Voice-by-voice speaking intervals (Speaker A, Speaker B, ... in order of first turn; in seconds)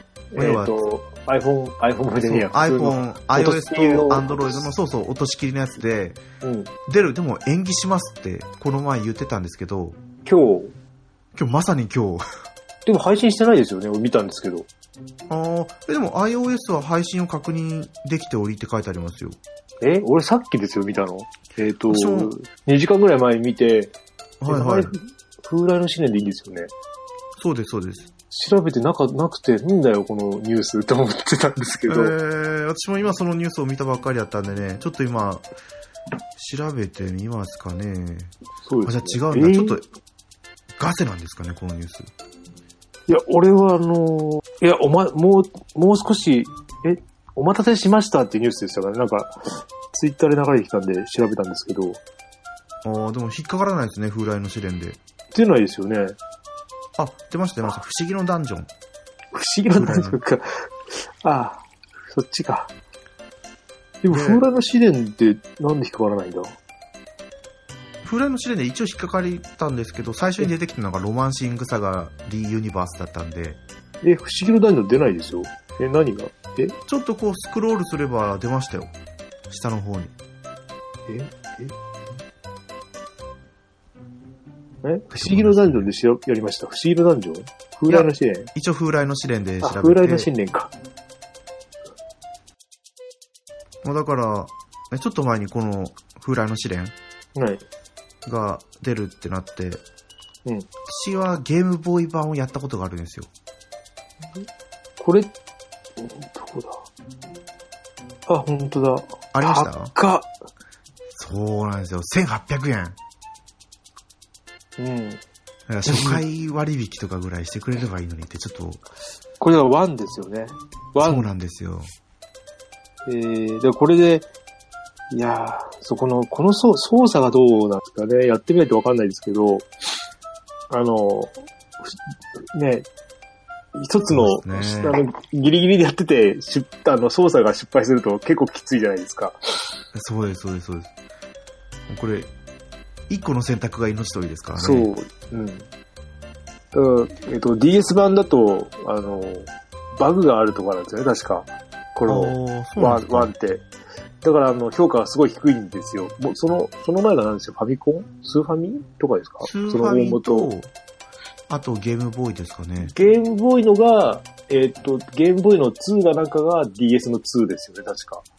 Speaker A: 0.3-4.7, 6.4-6.7, 10.2-10.7, 12.8-14.7, 19.8-23.9, 24.5-26.7, 28.3-32.1, 38.6-39.8, 43.1-49.4, 49.9-52.0, 55.3-56.2, 59.3-62.7, 64.0-66.5, 74.0-76.8, 81.1-81.7, 84.8-88.5, 89.6-90.7, 97.3-97.6, 105.0-105.3, 106.0-106.8, 108.3-110.3, 114.8-115.2, 115.8-116.2, 119.4-121.2, 123.0-124.3, 125.1-129.7, 130.7-132.0, 132.5-132.9, 133.7-139.4, 144.6-145.7, 146.7-153.7, 154.2-160.5, 162.8-168.2
Speaker B: 0.3-0.7, 2.2-6.2, 6.9-10.0, 11.3-12.2, 15.3-19.4, 21.9-22.3, 24.4-24.9, 27.4-28.1, 31.9-35.5, 36.4-39.8, 40.8-42.1, 52.8-55.0, 57.0-58.7, 59.7-60.2, 64.1-64.4, 68.0-73.6, 76.9-78.9, 79.5-80.1, 85.1-85.8, 87.9-90.3, 93.8-96.9, 98.2-99.8, 100.8-103.3, 109.3-109.9, 111.1-113.0, 115.7-118.8, 121.0-121.9, 134.1-135.0, 139.9-140.9, 141.9-142.3, 143.1-144.9, 152.1-153.3, 159.4-160.7, 161.5-162.9